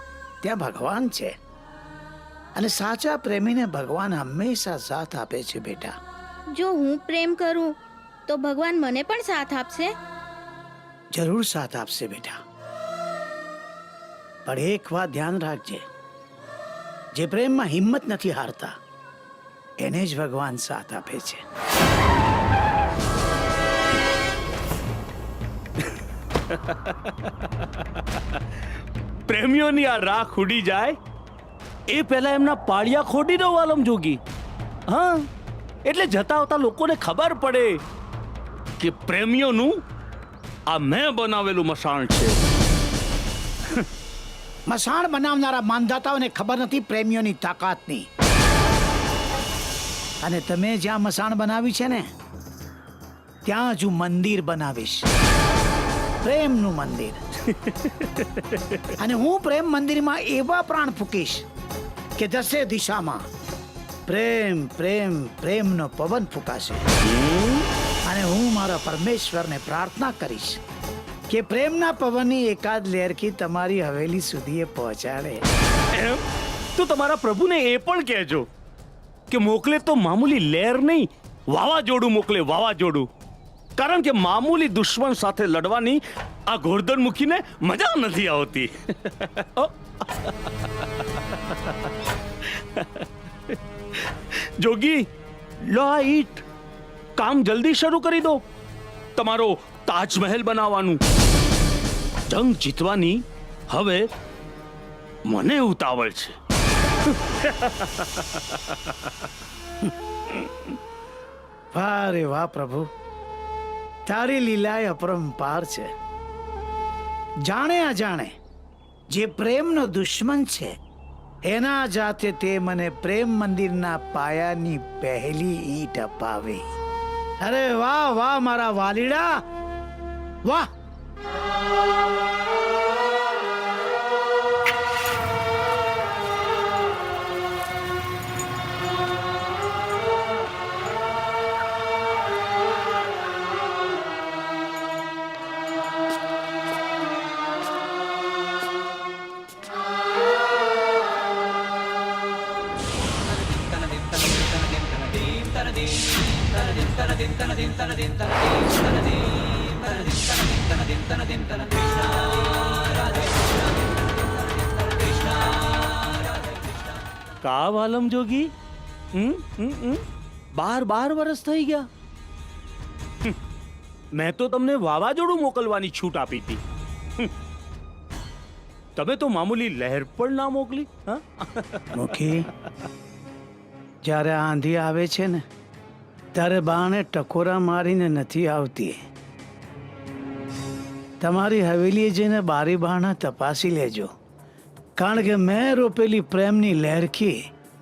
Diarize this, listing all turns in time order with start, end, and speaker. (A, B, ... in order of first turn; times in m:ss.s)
0:00.4-0:01.3 A
0:02.6-0:05.9 A
0:06.5-0:07.7 B
0:08.3-0:09.9 B
0:11.1-0:12.4 A
0:14.4-0:15.8 A
0:17.1-0:18.7 A
0:19.8-0:21.4 A
0:26.5-0:28.4 C
0:29.3-0:31.0 C
0:31.9-0:34.2 C
0:34.9-0:35.3 C
0:35.8-0:37.8 C
0:38.8-0:39.7 C
0:40.7-0:42.4 C
0:44.7-0:48.0 A
0:50.2-0:52.0 A
0:53.4-0:55.1 A
0:56.2-0:57.2 A
0:57.5-0:58.8 C
0:58.9-1:01.4 A
1:02.2-1:03.2 A
1:04.1-1:06.8 A
1:07.0-1:07.6 C
1:08.1-1:10.6 A
1:11.3-1:15.4 A
1:15.9-1:16.2 C
1:16.7-1:18.4 C
1:19.3-1:23.1 C
1:23.8-1:31.9 C
1:32.4-1:35.0 C
1:35.6-1:36.4 C
1:37.2-1:38.4 C
1:39.2-1:41.0 C
1:42.3-1:44.1 C
1:45.3-1:46.3 C
1:47.1-1:49.1 C
1:51.7-1:52.8 A
1:54.1-1:55.9 A
1:57.5-1:58.3 A
1:59.1-2:00.7 A
2:01.5-2:06.6 A
2:07.4-2:09.3 A
2:47.4-2:48.5 C
2:49.1-2:50.0 C
2:50.5-2:51.9 C
2:54.2-2:56.6 C
2:59.0-3:02.1 C
3:01.9-3:02.5 A
3:04.0-3:05.4 A
3:06.3-3:08.9 A
3:11.2-3:14.1 A
3:15.0-3:17.4 A